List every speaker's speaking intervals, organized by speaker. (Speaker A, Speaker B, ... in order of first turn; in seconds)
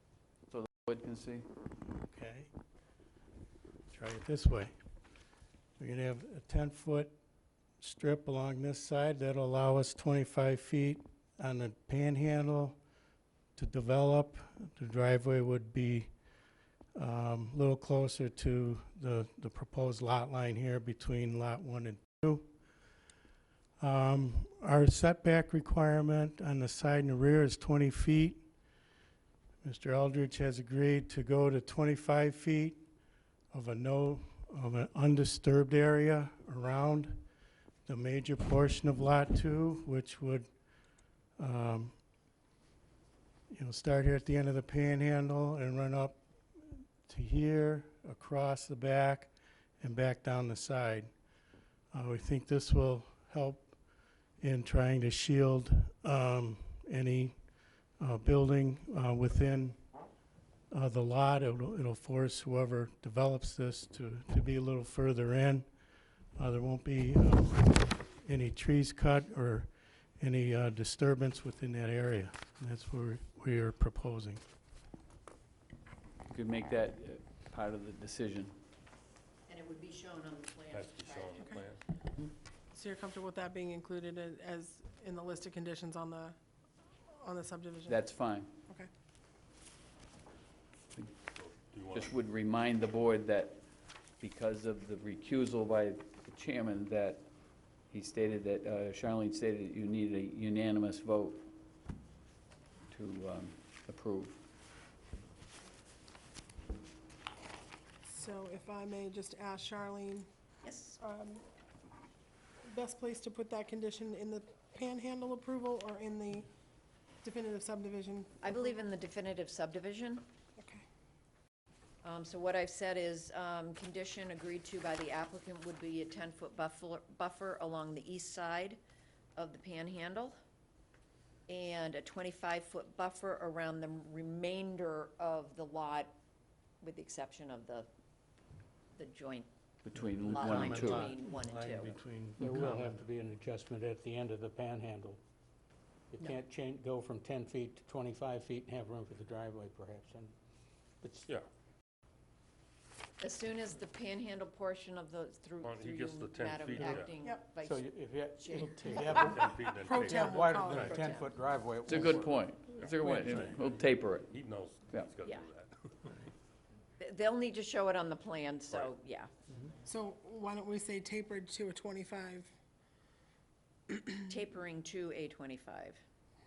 Speaker A: 0.5-1.4, 76.3-78.5, 87.9-88.5, 91.9-93.6, 94.2-97.3, 97.9-101.4, 102.9-104.4, 139.8-141.1, 161.8-164.3
Speaker B: 2.0-2.5, 3.9-4.7, 5.8-7.1, 7.8-12.8, 13.6-16.1, 16.9-22.5, 23.8-28.4, 29.6-32.8, 33.5-37.2, 37.9-40.5, 41.4-41.9, 43.5-46.2, 47.0-51.1, 51.9-53.7, 54.4-57.3, 58.0-59.8, 60.7-65.7, 66.4-69.7, 70.2-74.4, 140.3-143.0
Speaker C: 79.5-81.4, 110.6-111.0, 118.4-120.2, 122.0-128.8, 129.3-130.3, 131.5-136.1, 136.8-137.9, 138.9-139.5, 140.3-141.9, 153.2-157.8, 158.4-159.3, 160.8-161.2, 167.0-169.3, 174.3-176.0
Speaker D: 80.7-81.8, 91.3-92.1, 155.6-157.2, 159.1-161.0, 162.8-166.1
Speaker E: 82.7-86.4, 87.2-88.0, 108.0-110.3, 111.0-111.4, 112.7-116.5, 117.2-118.8, 120.6-120.8, 157.2-157.5, 159.7-161.2, 169.8-172.5
Speaker F: 142.4-145.2, 146.1-150.3, 151.0-151.3, 157.6-162.4